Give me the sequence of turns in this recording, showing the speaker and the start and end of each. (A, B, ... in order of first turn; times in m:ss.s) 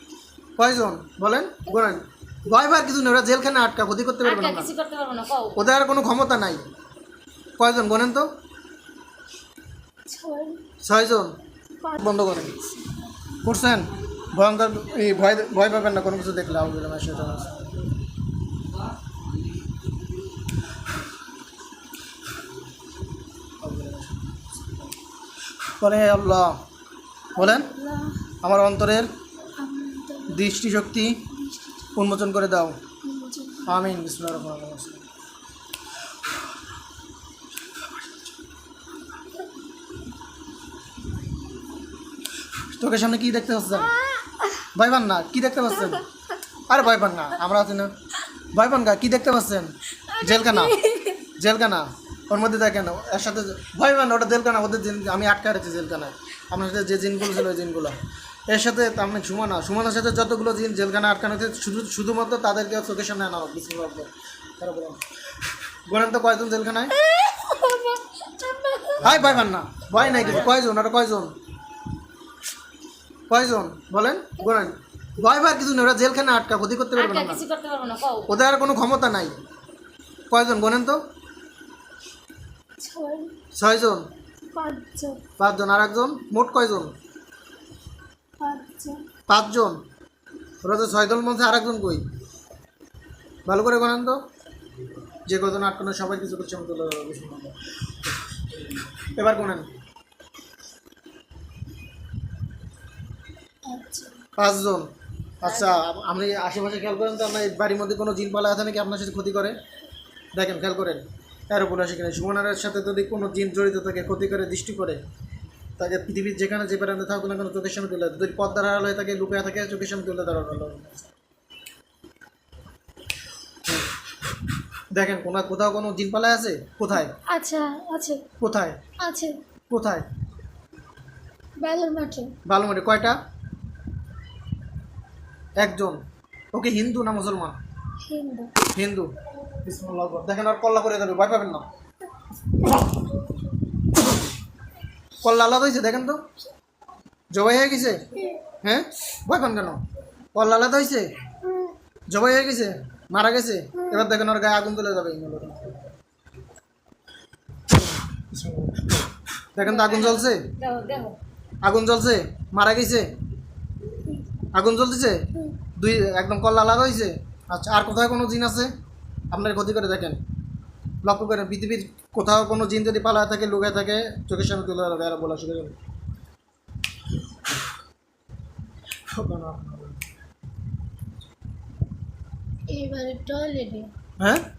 0:00.6-0:04.8 A
0:04.2-0:05.6 B
0:05.5-0:06.6 A
0:07.6-0:08.3 A
0:10.1-0:10.6 C
0:10.8-0:11.4 A
0:11.8-0:13.1 C
0:11.9-0:12.6 A
0:13.4-0:17.6 A
0:23.6-0:24.6 A
0:25.8-0:26.6 A
0:27.4-0:27.7 A
0:27.4-0:28.2 C
0:28.4-0:29.1 A
0:29.6-0:30.5 C
0:30.3-0:31.3 A
0:31.3-0:31.9 C
0:32.0-0:32.8 A
0:33.0-0:34.0 C
0:33.7-0:35.0 A
0:42.7-0:44.0 A
0:43.8-0:44.7 C
0:44.8-0:46.1 A
0:46.7-0:47.9 A
0:48.5-0:50.8 A
0:50.1-0:51.3 C
0:51.4-0:58.0 A
0:58.5-1:05.0 A
1:05.9-1:07.0 A
1:07.0-1:09.1 C
1:09.0-1:11.3 A
1:13.3-1:17.4 A
1:17.0-1:18.3 B
1:18.3-1:19.4 A
1:20.3-1:21.0 A
1:22.8-1:23.4 C
1:23.6-1:24.1 A
1:24.5-1:25.2 C
1:25.4-1:26.9 A
1:28.4-1:29.0 C
1:29.3-1:29.8 A
1:30.6-1:32.0 A
1:33.5-1:34.2 A
1:35.3-1:37.6 A
1:39.0-1:39.7 A
1:43.7-1:44.2 C
1:44.4-1:49.6 A
1:50.4-1:55.0 A
1:55.8-2:01.1 A
2:04.9-2:07.1 A
2:07.3-2:08.3 C
2:08.4-2:08.8 A
2:09.0-2:09.4 C
2:09.7-2:10.1 A
2:11.6-2:12.3 C
2:12.5-2:13.2 A
2:15.6-2:16.0 A
2:16.5-2:17.6 A
2:18.0-2:18.6 C
2:18.7-2:19.1 A
2:19.6-2:21.6 A
2:25.2-2:26.2 A
2:27.3-2:29.8 A
2:30.4-2:31.1 A
2:31.4-2:31.8 C
2:32.1-2:35.9 A
2:33.8-2:34.1 C
2:38.2-2:40.5 A
2:39.6-2:41.2 B
2:41.6-2:43.1 A
2:44.5-2:48.7 A
2:49.3-2:50.2 A
2:51.0-2:55.8 A
2:59.1-3:00.0 A
3:02.7-3:03.9 C
3:04.2-3:04.4 A